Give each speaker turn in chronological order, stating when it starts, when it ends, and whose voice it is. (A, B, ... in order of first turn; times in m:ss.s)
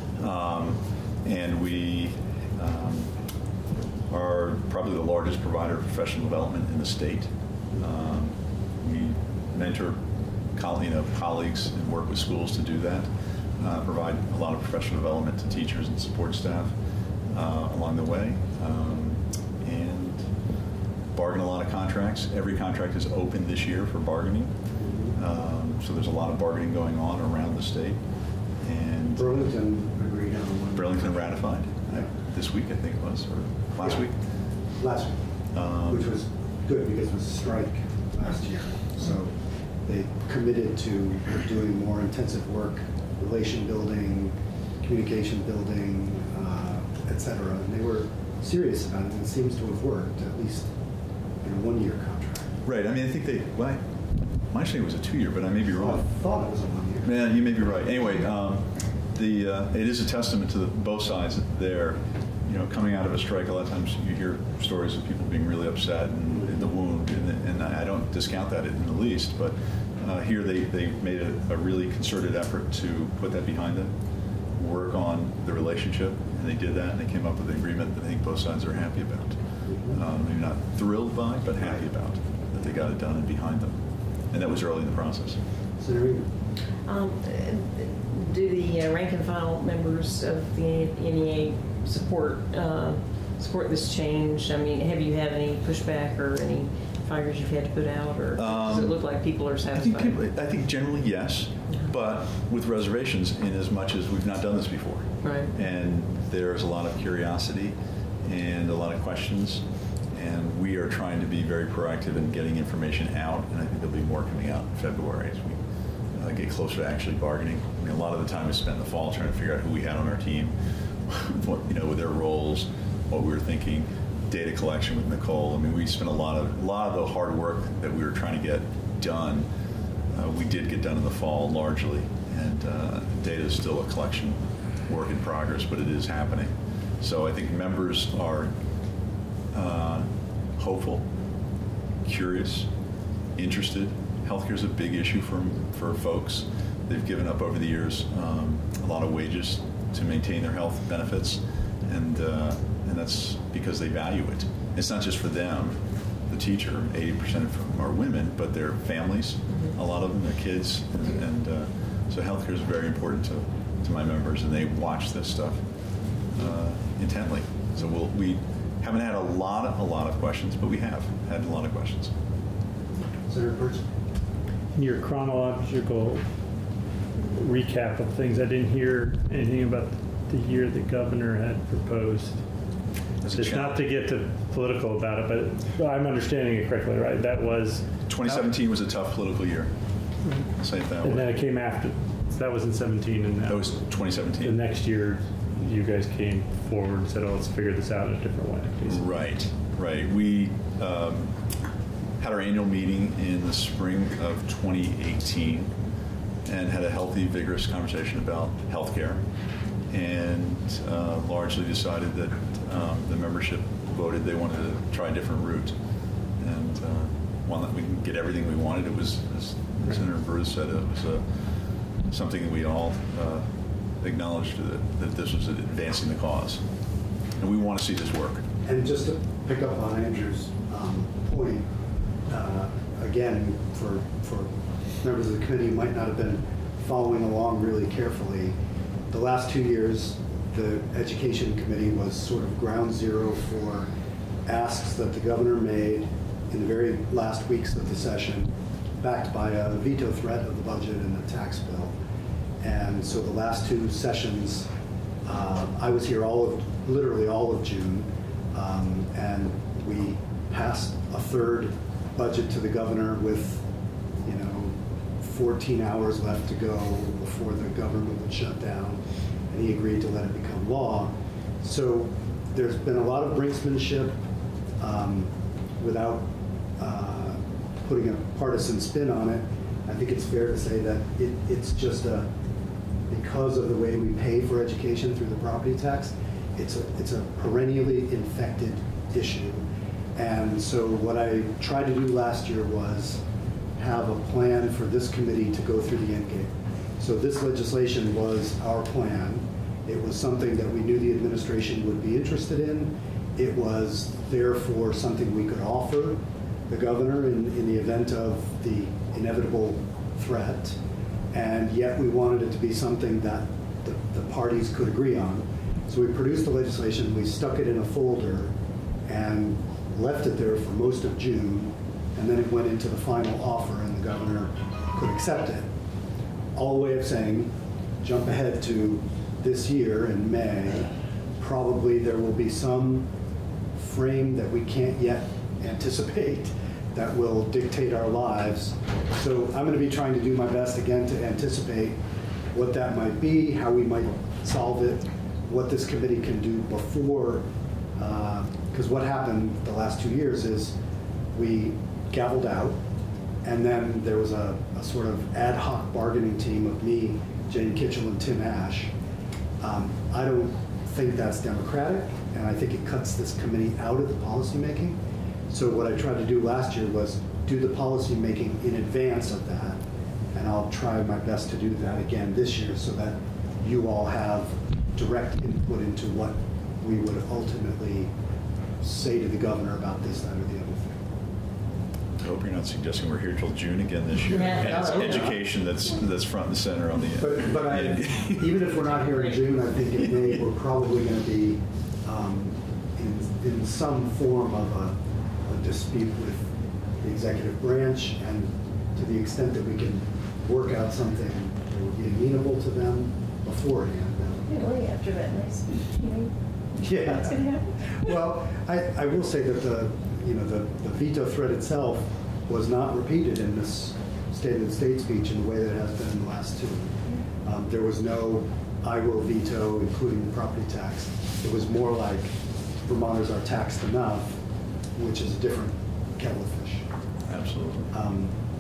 0:00.2-0:03.1 A
0:04.1-0:10.0 A
0:10.6-0:16.8 A
0:17.3-0:20.2 A
0:21.1-0:24.5 A
0:24.8-0:25.2 B
0:25.2-0:28.0 A
0:28.6-0:29.3 A
0:29.2-0:32.1 B
0:30.8-0:34.1 A
0:34.8-0:35.2 B
0:35.5-0:36.1 A
0:35.9-0:50.7 B
0:51.4-0:52.6 B
0:52.6-0:53.8 A
0:54.5-0:56.0 A
0:55.7-0:57.1 B
0:57.0-1:13.9 A
1:06.3-1:06.7 B
1:14.6-1:19.4 A
1:19.7-1:20.0 B
1:19.9-1:23.8 A
1:24.3-1:25.4 A
1:25.8-1:26.3 B
1:26.9-1:40.2 C
1:38.4-1:39.0 A
1:39.7-1:55.6 A
1:45.2-1:45.5 C
1:56.2-2:00.5 A
2:01.1-2:09.5 A
2:10.1-2:18.5 A
2:19.5-2:21.0 A
2:22.0-2:22.7 A
2:23.4-2:45.6 A
2:39.5-2:39.8 C
2:46.3-2:52.1 A
2:53.3-2:53.8 B
2:54.8-2:56.2 D
2:57.2-3:02.4 D
3:03.2-3:03.9 A
3:03.3-3:07.9 D
3:08.1-3:09.7 A
3:10.6-3:11.3 A
3:11.0-3:13.8 D
3:13.5-3:14.6 A
3:14.4-3:19.1 D
3:18.9-3:21.3 A
3:22.2-3:25.7 A
3:26.4-3:29.2 A
3:29.9-3:35.8 A
3:36.4-3:41.2 A
3:42.1-3:43.5 A
3:44.0-3:46.6 A
3:47.4-3:48.4 A
3:48.6-3:51.7 B
3:52.3-3:58.6 B
3:59.1-4:03.9 B
4:04.5-4:12.0 B
4:12.6-4:14.7 B
4:15.2-4:23.6 B
4:24.2-4:34.2 B
4:34.8-4:42.3 B
4:43.1-4:49.6 B
4:50.2-4:53.2 B
4:53.8-5:10.8 B
5:11.3-5:18.5 B
5:19.1-5:25.7 B
5:26.5-5:33.1 B
5:33.8-5:42.0 B
5:42.5-5:50.8 B
5:51.3-5:52.8 B
5:53.4-5:58.9 B
5:59.6-6:09.8 B
6:10.3-6:18.1 B
6:18.8-6:21.1 B
6:22.2-6:29.1 A
6:24.3-6:25.3 C
6:24.5-6:25.4 B
6:27.2-6:36.5 B
6:30.0-6:30.4 A
6:37.0-6:44.5 B
6:44.5-6:47.7 C
6:46.8-6:47.5 B
6:48.0-7:04.4 B
7:05.0-7:06.9 B
7:07.3-7:07.9 A
7:07.9-7:08.3 B